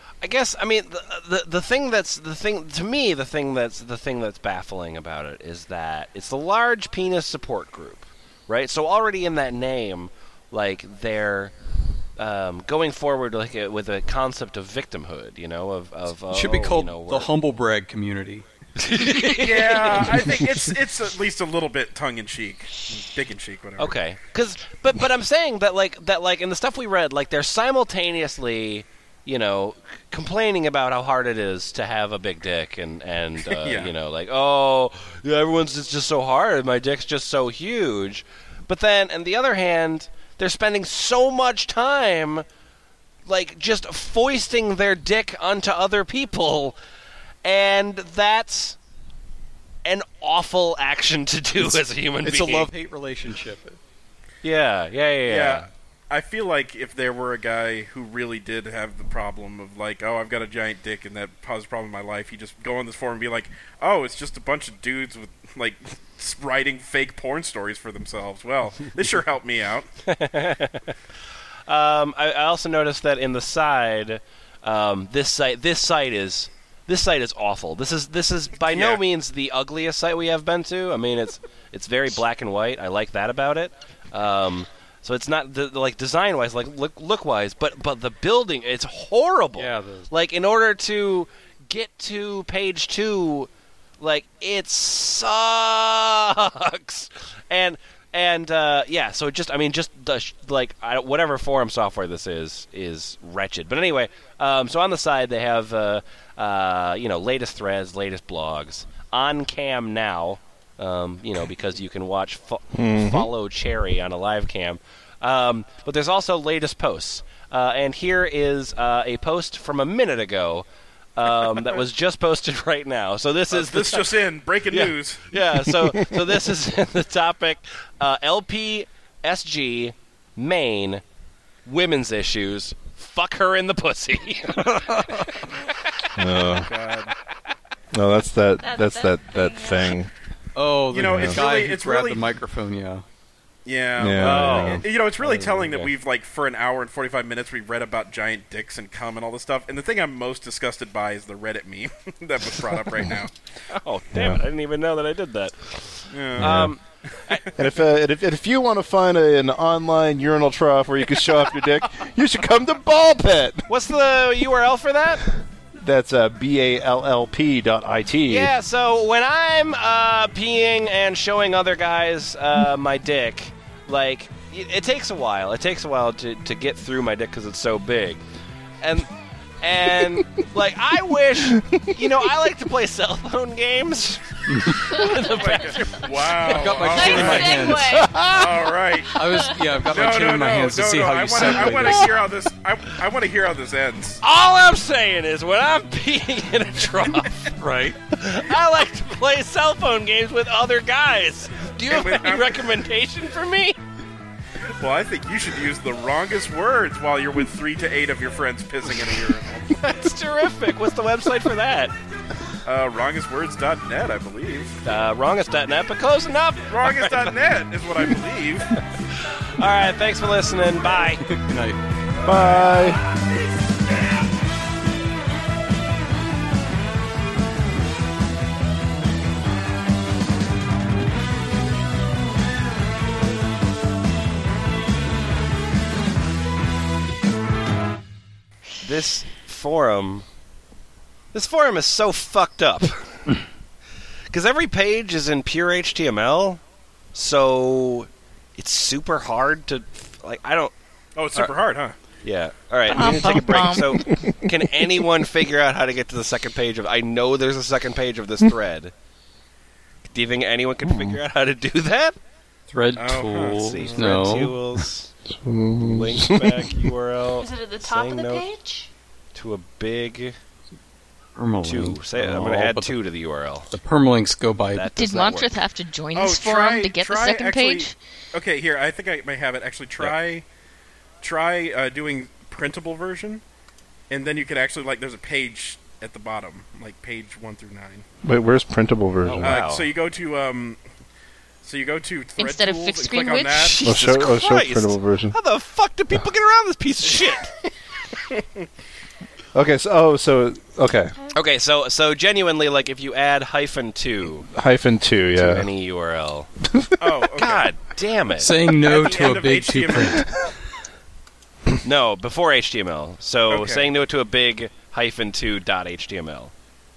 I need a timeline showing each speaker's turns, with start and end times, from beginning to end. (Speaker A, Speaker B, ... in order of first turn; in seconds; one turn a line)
Speaker A: 0.2-11.5
Speaker A: 12.2-17.3
Speaker B: 16.3-18.4
Speaker A: 18.8-20.2
Speaker B: 19.0-19.4
Speaker C: 19.4-23.9
Speaker A: 23.8-42.4
Speaker C: 33.4-33.9
Speaker A: 43.2-46.8
Speaker A: 47.4-48.8
Speaker A: 49.8-52.7
Speaker B: 51.6-53.8
Speaker A: 54.4-55.7
Speaker C: 55.2-69.9
Speaker A: 70.0-70.9
Speaker A: 71.7-93.5
Speaker C: 78.6-79.0
Speaker B: 89.5-90.1
Speaker A: 94.0-124.2
Speaker D: 112.7-113.3
Speaker C: 123.5-125.3
Speaker A: 124.7-131.0
Speaker D: 125.8-126.2
Speaker A: 131.6-135.0
Speaker B: 134.5-135.5
Speaker D: 136.1-136.7
Speaker C: 136.5-137.1
Speaker D: 137.9-140.1
Speaker E: 138.6-140.0
Speaker B: 140.6-143.0
Speaker C: 140.9-142.2
Speaker D: 140.9-141.4
Speaker C: 143.7-153.3
Speaker D: 144.0-144.8
Speaker A: 144.2-144.8
Speaker B: 145.2-145.9
Speaker A: 153.7-157.4
Speaker D: 154.1-154.4
Speaker C: 156.1-156.7
Speaker D: 156.4-156.7
Speaker D: 157.5-163.7
Speaker A: 163.7-165.2
Speaker D: 165.8-168.5
Speaker A: 168.3-178.2
Speaker A: 178.8-185.9
Speaker D: 180.0-180.4
Speaker D: 181.4-182.3
Speaker B: 184.5-185.8
Speaker E: 184.8-186.1
Speaker C: 184.9-189.2
Speaker B: 186.4-188.0
Speaker E: 186.9-188.4
Speaker D: 188.0-188.4
Speaker B: 189.1-192.1
Speaker C: 189.8-194.2
Speaker A: 194.2-197.6
Speaker B: 197.5-198.0
Speaker A: 198.1-203.8
Speaker C: 201.9-202.7
Speaker C: 204.8-209.8
Speaker A: 209.8-211.9
Speaker C: 212.6-215.0
Speaker A: 214.8-217.3
Speaker C: 216.7-218.8
Speaker A: 218.7-221.2
Speaker B: 221.2-221.8
Speaker D: 222.2-223.0
Speaker A: 238.8-240.2
Speaker A: 241.3-243.4
Speaker A: 244.3-246.6
Speaker A: 247.1-250.7
Speaker C: 251.2-251.9
Speaker A: 252.2-258.9
Speaker F: 252.9-254.2
Speaker D: 254.1-254.9
Speaker A: 260.0-262.2
Speaker D: 260.8-261.2
Speaker B: 262.7-264.6
Speaker C: 262.9-264.0
Speaker A: 263.5-265.1
Speaker D: 265.3-266.9
Speaker A: 265.8-268.5
Speaker E: 267.4-268.9
Speaker A: 269.3-270.4
Speaker B: 271.4-272.9
Speaker A: 271.6-273.7
Speaker B: 273.7-274.9
Speaker A: 274.7-275.6
Speaker F: 274.9-277.9
Speaker C: 276.1-280.4
Speaker C: 281.2-283.4
Speaker C: 284.1-288.1
Speaker D: 288.2-289.6
Speaker A: 289.2-289.9
Speaker C: 289.4-290.8
Speaker C: 291.6-293.8
Speaker F: 292.4-293.7
Speaker A: 293.6-297.7
Speaker D: 293.8-295.3
Speaker D: 299.5-301.1
Speaker A: 301.3-304.5
Speaker D: 304.5-305.7
Speaker A: 305.3-306.5
Speaker D: 306.6-307.0
Speaker C: 307.0-307.7
Speaker A: 307.4-308.5
Speaker B: 308.4-310.3
Speaker C: 308.8-310.3
Speaker A: 311.8-316.5
Speaker C: 313.5-313.9